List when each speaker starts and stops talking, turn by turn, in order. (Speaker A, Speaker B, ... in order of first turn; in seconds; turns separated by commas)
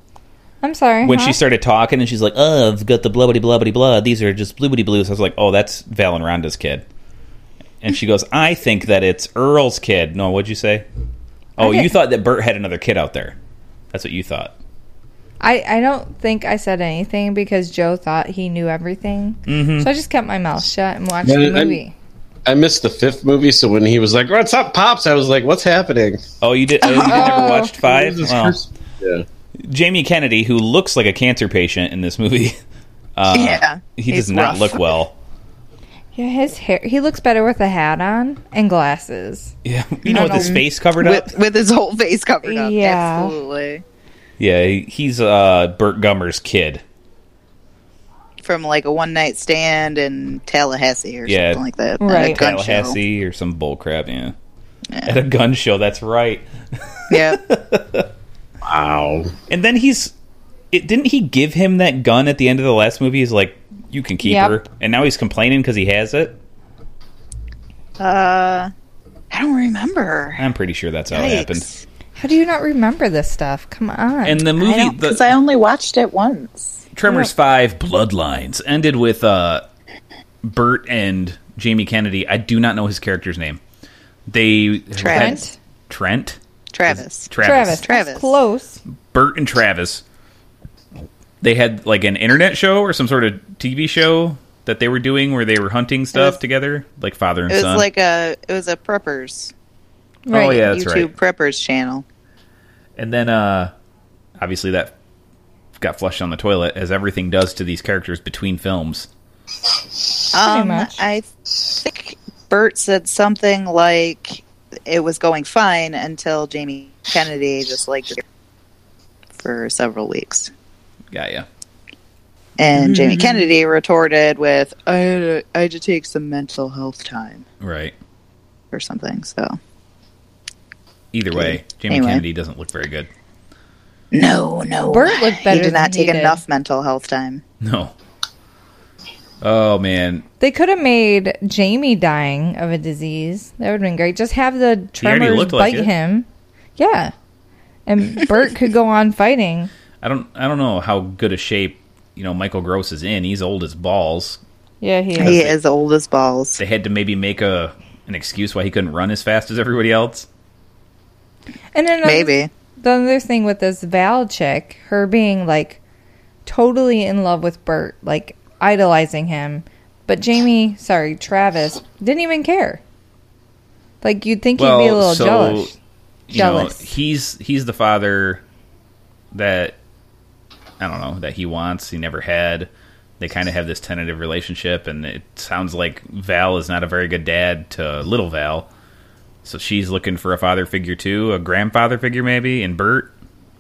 Speaker A: 0.6-1.4, Speaker B: 1.0-6.8, Speaker B: 7.8-10.8, Speaker B: 11.6-13.3, Speaker A: 11.6-11.9, Speaker B: 13.9-14.5, Speaker A: 15.4-21.9, Speaker B: 19.5-19.9, Speaker C: 21.2-21.8, Speaker C: 22.5-26.2, Speaker B: 26.4-28.6, Speaker D: 26.9-27.3, Speaker A: 27.1-27.7, Speaker C: 27.8-29.2, Speaker B: 29.6-32.6, Speaker B: 33.2-35.1, Speaker D: 33.3-34.9, Speaker A: 36.1-39.5, Speaker B: 39.6-41.3, Speaker A: 40.1-40.6, Speaker D: 40.1-43.8, Speaker A: 42.5-43.3, Speaker B: 44.4-46.8, Speaker D: 48.4-53.0, Speaker B: 51.3-51.6, Speaker A: 52.0-52.4, Speaker B: 52.1-54.3, Speaker B: 55.1-56.4, Speaker B: 57.1-58.1, Speaker D: 57.1-57.4, Speaker C: 58.6-59.3, Speaker B: 59.5-60.1, Speaker B: 60.7-66.4, Speaker A: 64.2-64.6, Speaker D: 68.0-68.7, Speaker D: 69.3-70.4, Speaker B: 70.4-71.7, Speaker D: 71.1-71.8, Speaker A: 72.2-74.8, Speaker B: 74.2-75.4, Speaker D: 74.7-76.8, Speaker B: 76.9-79.7, Speaker B: 80.4-83.6, Speaker B: 84.3-87.8, Speaker D: 85.0-85.4, Speaker A: 85.1-85.6, Speaker D: 86.7-87.3, Speaker A: 87.4-88.8, Speaker D: 87.8-88.3, Speaker B: 89.1-90.0, Speaker B: 91.4-97.9, Speaker D: 96.1-96.4, Speaker D: 97.5-99.5, Speaker A: 100.3-100.6, Speaker B: 100.3-101.1, Speaker D: 100.3-102.0, Speaker B: 103.0-103.7, Speaker B: 104.4-104.9, Speaker B: 105.8-109.1, Speaker D: 110.3-118.2, Speaker A: 110.5-111.0, Speaker D: 119.4-120.5, Speaker B: 121.1-121.5, Speaker D: 122.6-127.4, Speaker B: 127.6-127.9, Speaker D: 128.7-129.6, Speaker B: 131.1-133.1, Speaker D: 131.3-132.2, Speaker D: 134.1-137.4, Speaker A: 134.9-136.4, Speaker B: 137.6-137.9, Speaker B: 139.4-140.2, Speaker A: 140.4-146.3, Speaker B: 145.0-145.9, Speaker A: 146.8-147.1, Speaker A: 147.9-149.7, Speaker B: 150.0-154.4, Speaker A: 154.8-155.4, Speaker D: 155.2-156.6, Speaker B: 155.2-155.6, Speaker B: 156.6-160.3, Speaker A: 161.7-165.8, Speaker D: 162.0-162.5, Speaker A: 166.5-172.8, Speaker A: 174.0-175.7, Speaker B: 174.6-175.7, Speaker B: 176.3-178.4, Speaker A: 176.3-176.9, Speaker B: 179.3-179.8, Speaker B: 180.8-188.7, Speaker B: 189.4-193.1